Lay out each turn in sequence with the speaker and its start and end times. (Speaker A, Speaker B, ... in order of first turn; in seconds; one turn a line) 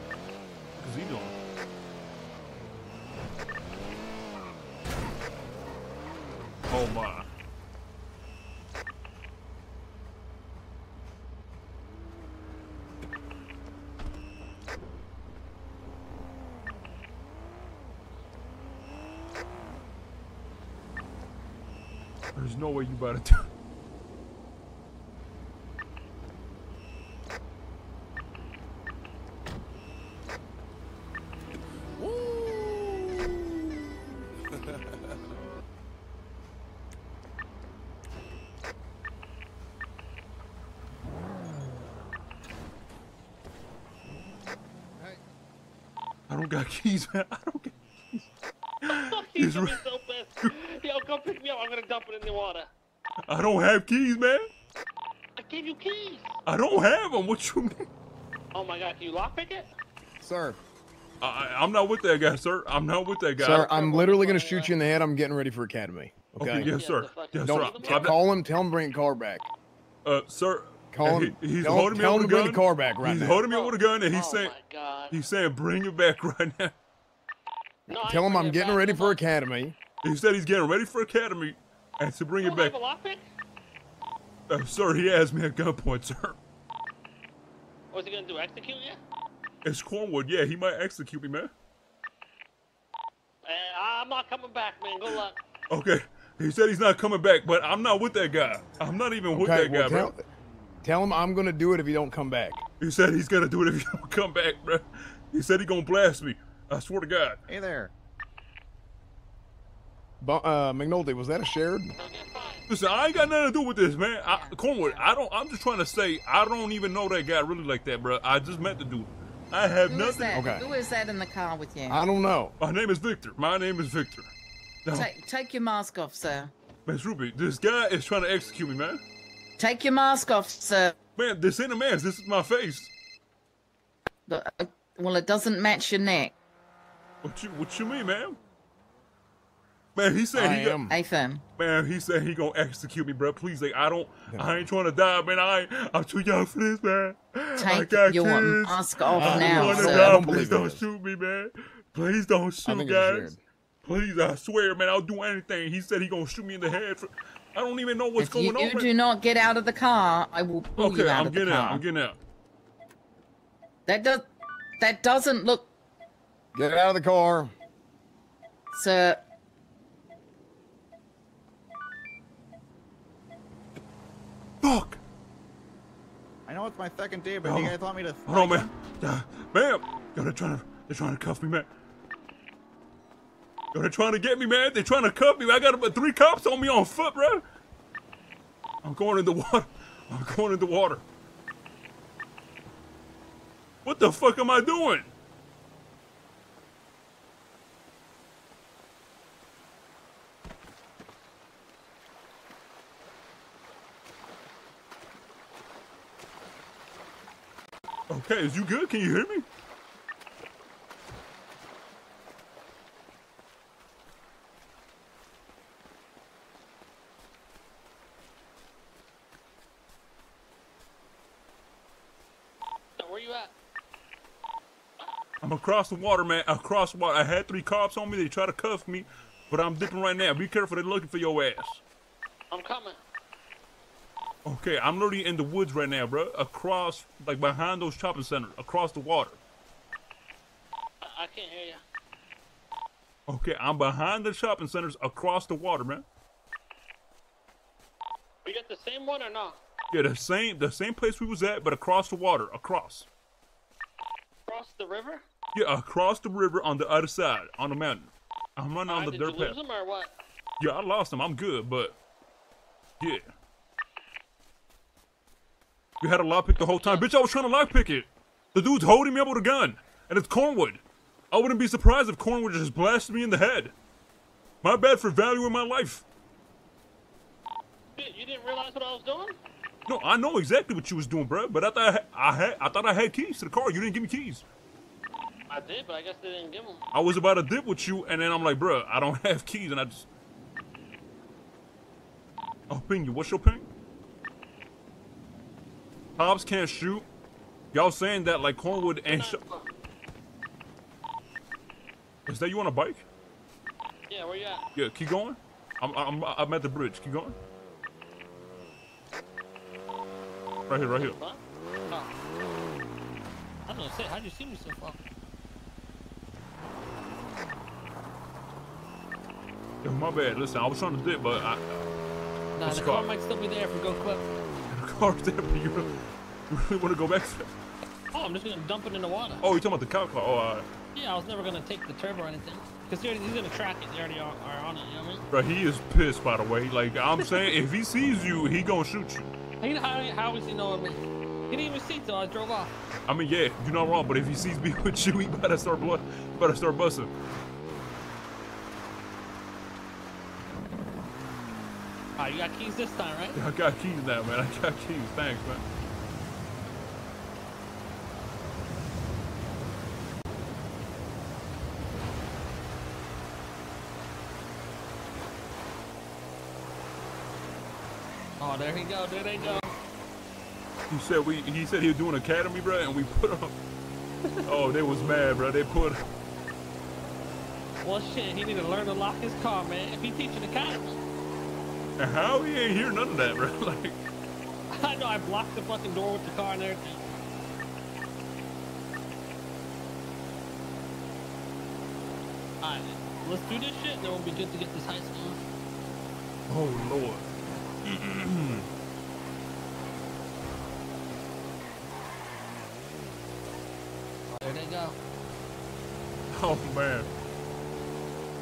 Speaker A: 0.8-1.3
Speaker A: 6.7-7.3
Speaker A: 22.3-23.5
Speaker A: 46.3-48.3
Speaker A: 48.9-49.8
Speaker B: 48.9-52.7
Speaker A: 53.3-54.5
Speaker B: 55.4-56.4
Speaker A: 56.5-57.9
Speaker B: 58.5-59.7
Speaker C: 60.2-60.6
Speaker A: 61.2-63.7
Speaker C: 63.4-66.7
Speaker B: 63.5-64.7
Speaker A: 66.4-68.2
Speaker B: 66.7-68.1
Speaker C: 67.4-69.5
Speaker A: 70.0-74.5
Speaker C: 70.9-73.4
Speaker B: 73.5-75.2
Speaker A: 75.1-76.7
Speaker B: 77.9-79.2
Speaker C: 77.9-79.8
Speaker A: 80.0-82.8
Speaker B: 82.4-83.2
Speaker A: 84.5-86.4
Speaker B: 87.9-89.0
Speaker A: 89.6-91.5
Speaker B: 93.4-95.4
Speaker A: 95.7-100.1
Speaker C: 99.3-100.2
Speaker C: 100.8-102.6
Speaker A: 102.8-107.4
Speaker D: 107.5-107.9
Speaker C: 110.2-111.9
Speaker B: 112.0-112.6
Speaker A: 112.7-120.4
Speaker E: 114.3-115.1
Speaker E: 119.8-122.0
Speaker C: 120.3-120.7
Speaker C: 121.9-122.5
Speaker A: 122.6-124.3
Speaker A: 124.8-125.1
Speaker E: 124.9-126.5
Speaker A: 126.8-129.0
Speaker E: 129.6-130.9
Speaker A: 131.2-132.9
Speaker E: 134.3-136.3
Speaker A: 137.2-138.4
Speaker A: 139.9-140.8
Speaker C: 140.3-141.0
Speaker E: 140.9-141.4
Speaker A: 141.6-158.9
Speaker C: 144.3-144.6
Speaker E: 147.6-150.3
Speaker C: 149.1-150.8
Speaker C: 152.6-153.4
Speaker E: 158.2-161.8
Speaker A: 160.8-162.2
Speaker E: 163.9-164.3
Speaker E: 164.8-165.7
Speaker C: 166.5-167.5
Speaker E: 168.7-169.2
Speaker A: 174.6-175.0
Speaker D: 176.5-178.7
Speaker A: 177.4-181.7
Speaker A: 183.7-187.4
Speaker A: 188.8-191.0
Speaker A: 193.8-195.1
Speaker A: 208.1-209.4
Speaker B: 223.0-223.5
Speaker A: 225.4-231.8
Speaker B: 232.5-233.0
Speaker A: 234.4-239.4
Speaker B: 241.0-241.8
Speaker A: 243.3-246.0
Speaker B: 248.4-249.6
Speaker A: 249.9-253.1
Speaker B: 254.5-255.2
Speaker A: 255.5-259.6
Speaker B: 258.8-260.1
Speaker A: 260.6-262.0
Speaker A: 263.0-263.3
Speaker A: 266.0-273.7
Speaker B: 266.5-267.1
Speaker A: 274.6-276.0
Speaker B: 278.0-279.4
Speaker A: 279.9-284.4
Speaker B: 285.5-286.8
Speaker A: 286.9-290.1
Speaker A: 292.7-293.7
Speaker A: 296.2-297.1
Speaker A: 297.7-299.4
Speaker B: 299.1-299.7
Speaker A: 302.3-303.1
Speaker B: 304.1-304.6
Speaker A: 304.8-307.4
Speaker A: 310.7-311.1
Speaker B: 310.8-312.1
Speaker B: 313.7-314.9
Speaker A: 319.8-321.6
Speaker B: 322.6-324.2
Speaker A: 322.6-323.1
Speaker A: 324.7-325.9
Speaker A: 326.5-327.5
Speaker B: 328.1-329.4
Speaker A: 329.4-330.7
Speaker B: 330.9-335.2
Speaker A: 335.3-339.3
Speaker B: 337.2-337.6
Speaker B: 339.6-341.0
Speaker B: 341.5-342.7
Speaker A: 343.1-347.1
Speaker B: 352.2-353.4
Speaker A: 353.3-355.6
Speaker B: 368.4-369.7
Speaker A: 370.9-373.6
Speaker A: 374.4-376.0
Speaker B: 377.8-381.0
Speaker A: 382.0-384.0
Speaker B: 384.7-387.0
Speaker B: 392.6-395.4
Speaker A: 396.5-397.3
Speaker A: 397.8-398.7
Speaker B: 404.3-404.9
Speaker A: 406.3-407.1